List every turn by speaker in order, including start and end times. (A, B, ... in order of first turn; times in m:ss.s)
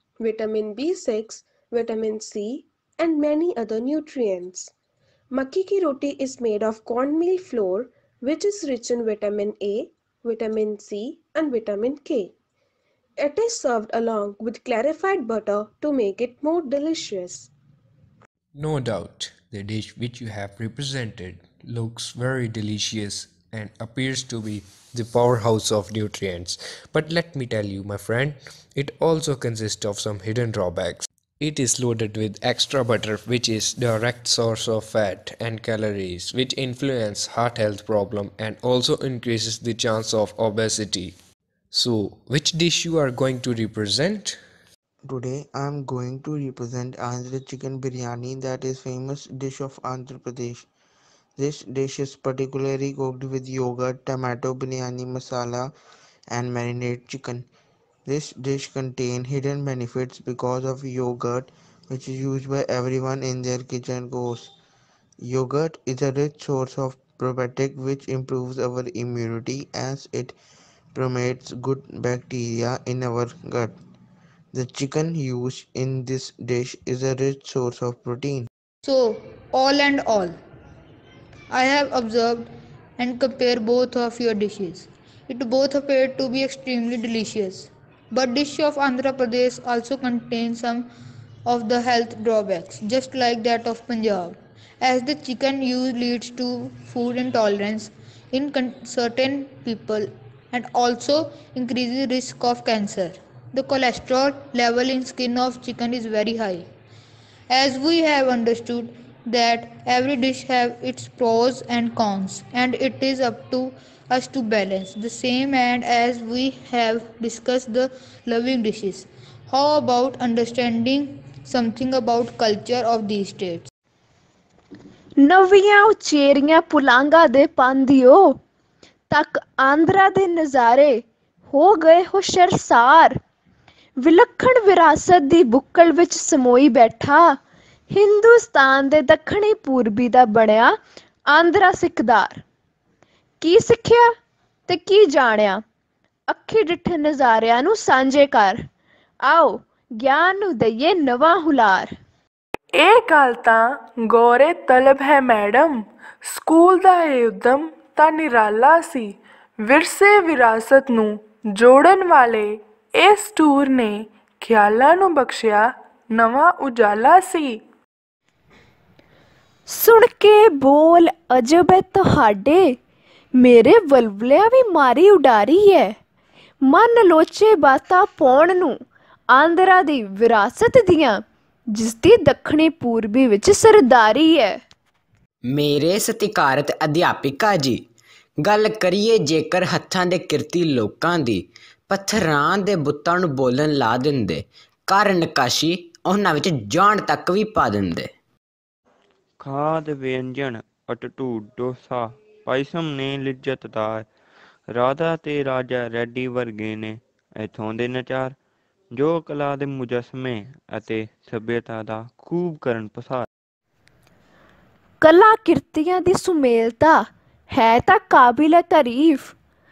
0:00.2-0:04.7 A
0:05.3-0:12.3 A
0:13.2-0:17.5 A
0:18.5-0:41.2 B
0:41.7-0:44.4 B
0:45.0-0:50.6 C
0:51.4-0:55.7 C
0:56.3-0:57.4 C
0:58.0-1:04.5 C
1:05.2-1:10.3 C
1:10.9-1:13.8 C
1:14.5-1:18.5 C
1:18.8-1:20.4 D
1:21.5-1:30.9 D
1:31.4-1:46.7 D
1:47.5-2:03.7 D
2:05.2-2:08.4 E
2:09.1-2:13.2 E
2:14.0-2:17.4 E
2:17.9-2:22.4 E
2:23.4-2:24.2 E
2:24.7-2:25.6 E
2:26.3-2:28.7 E
2:29.2-2:31.9 E
2:32.7-2:47.6 F
2:49.7-2:52.8 E
2:53.4-2:56.0 E
2:56.6-2:58.8 E
2:59.3-3:04.6 E
3:05.5-3:07.8 G
3:08.4-3:18.1 G
3:19.4-3:24.1 H
3:24.7-3:28.4 H
3:28.9-3:33.2 H
3:35.0-3:39.3 E